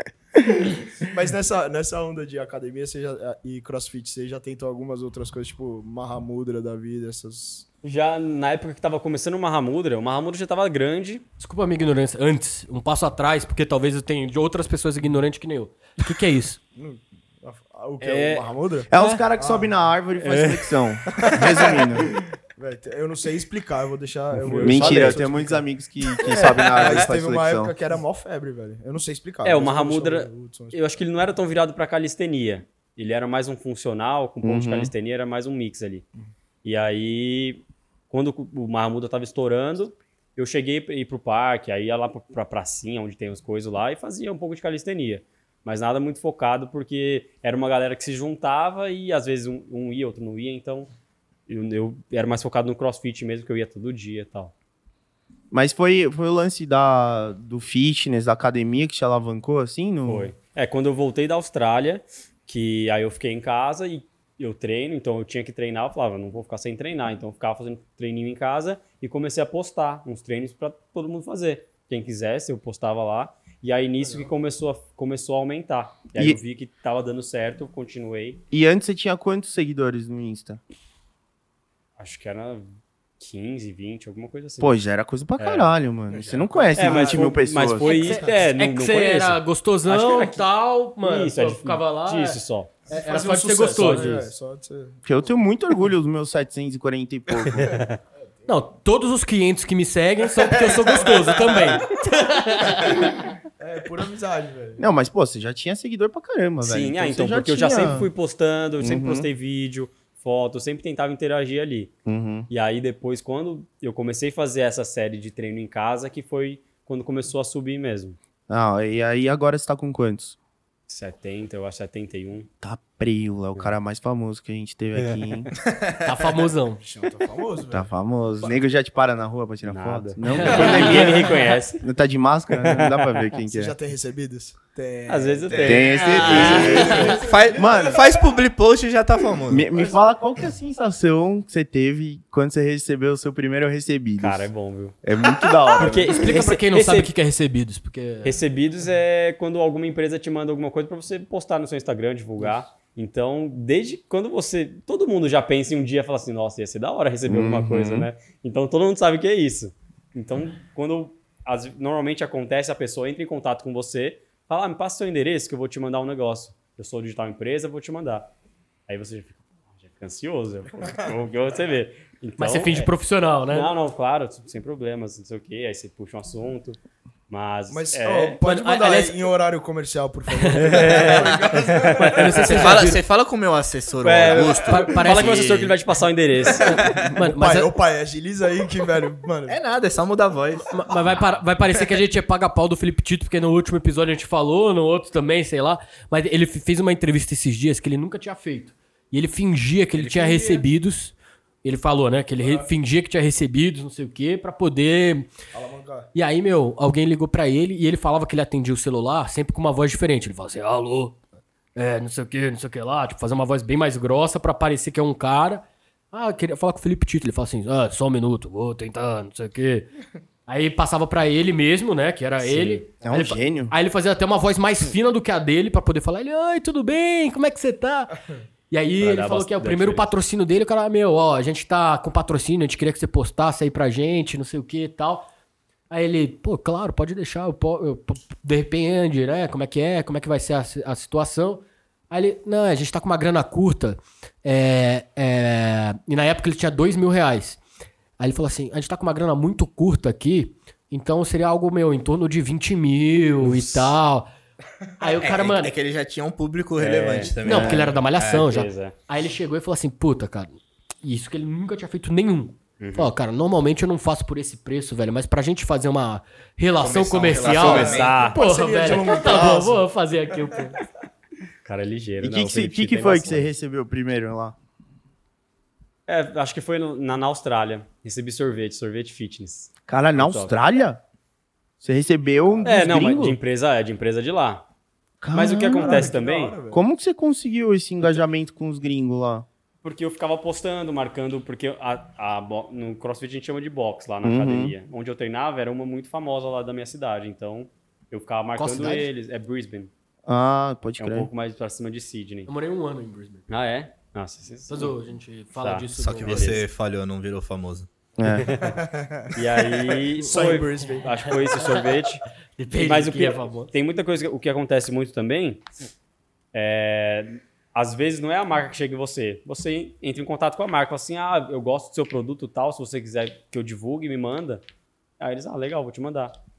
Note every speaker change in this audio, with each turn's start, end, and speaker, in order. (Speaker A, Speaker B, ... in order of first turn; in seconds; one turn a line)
Speaker A: 1.0-7.7
Speaker B: 7.8-11.2
Speaker C: 11.4-16.6
Speaker A: 16.8-19.7
Speaker B: 18.0-18.5
Speaker D: 18.9-22.1
Speaker C: 18.9-19.2
Speaker B: 20.2-20.7
Speaker A: 21.1-30.8
Speaker B: 24.4-25.2
Speaker D: 24.5-27.7
Speaker B: 29.4-36.0
Speaker D: 34.4-34.9
Speaker B: 36.6-50.9
Speaker B: 51.5-54.5
Speaker D: 55.5-60.3
Speaker B: 60.1-78.4
Speaker D: 78.5-80.6
Speaker B: 82.0-82.7
Speaker B: 83.2-84.8
Speaker D: 84.6-87.9
Speaker B: 85.4-85.7
Speaker A: 86.1-87.4
Speaker B: 86.7-90.5
Speaker C: 87.8-92.4
Speaker B: 91.0-92.7
Speaker C: 92.9-94.2
Speaker A: 92.9-95.1
Speaker B: 93.7-94.3
Speaker D: 95.0-97.8
Speaker B: 97.5-98.0
Speaker A: 98.2-98.5
Speaker C: 98.5-103.1
Speaker A: 100.4-101.8
Speaker A: 102.7-104.8
Speaker D: 104.8-108.1
Speaker B: 106.6-111.9
Speaker D: 108.8-109.3
Speaker D: 112.0-112.5
Speaker B: 112.5-118.2
Speaker D: 118.5-120.3
Speaker B: 120.9-122.5
Speaker D: 122.6-125.5
Speaker B: 125.0-125.5
Speaker E: 125.6-126.1
Speaker C: 126.0-126.8
Speaker A: 126.8-127.9
Speaker D: 127.7-133.7
Speaker B: 129.7-131.8
Speaker C: 130.3-131.2
Speaker B: 132.6-133.3
Speaker A: 133.4-137.8
Speaker B: 135.1-137.0
Speaker E: 135.5-139.7
Speaker D: 135.6-137.0
Speaker C: 136.1-137.2
Speaker D: 137.5-138.0
Speaker D: 139.5-144.5
Speaker B: 144.2-144.9
Speaker D: 145.0-146.2
Speaker B: 145.8-147.1
Speaker C: 146.1-148.4
Speaker B: 148.2-168.3
Speaker D: 157.3-158.1
Speaker B: 168.9-172.9
Speaker C: 172.4-173.7
Speaker B: 173.5-176.8
Speaker B: 177.3-178.4
Speaker A: 177.7-182.6
Speaker C: 178.4-179.2
Speaker C: 180.3-180.9
Speaker B: 180.6-182.7
Speaker C: 182.1-183.0
Speaker E: 182.4-185.2
Speaker B: 184.0-186.8
Speaker C: 184.6-185.8
Speaker E: 186.6-187.1
Speaker C: 186.6-187.7
Speaker A: 186.7-189.6
Speaker E: 189.5-191.2
Speaker C: 190.7-205.3
Speaker E: 199.9-200.6
Speaker A: 202.4-202.7
Speaker A: 205.5-206.1
Speaker C: 206.1-211.2
Speaker C: 211.7-219.9
Speaker C: 220.5-228.2
Speaker B: 222.4-222.8
Speaker D: 223.0-223.7
Speaker C: 228.7-235.3
Speaker B: 229.0-230.1
Speaker C: 235.9-247.6
Speaker C: 248.2-254.3
Speaker E: 253.4-253.9
Speaker C: 255.0-255.7
Speaker E: 255.2-258.5
Speaker B: 256.8-257.4
Speaker C: 257.4-270.8
Speaker D: 257.4-257.9
Speaker B: 258.4-258.9
Speaker B: 262.8-263.1
Speaker E: 266.8-268.4
Speaker A: 267.4-269.8
Speaker B: 267.5-268.4
Speaker B: 271.6-273.5
Speaker D: 272.2-274.6
Speaker B: 276.1-280.5
Speaker D: 279.9-281.0
Speaker D: 281.8-283.4
Speaker A: 282.5-282.8
Speaker B: 282.6-284.6
Speaker D: 285.2-286.1
Speaker B: 285.3-286.6
Speaker A: 285.8-286.8
Speaker D: 286.7-289.4
Speaker B: 289.8-299.9
Speaker D: 294.2-294.7
Speaker D: 298.6-299.1
Speaker D: 300.3-301.3
Speaker B: 301.0-302.5
Speaker C: 302.5-303.4
Speaker B: 303.5-304.9
Speaker C: 304.7-306.6
Speaker B: 305.6-306.6
Speaker E: 305.9-307.9
Speaker D: 308.2-308.6
Speaker B: 308.2-308.8
Speaker A: 308.7-311.1
Speaker B: 309.3-312.2
Speaker C: 311.0-311.8
Speaker C: 312.6-313.7
Speaker B: 312.8-315.6
Speaker B: 316.5-324.6
Speaker B: 325.2-326.4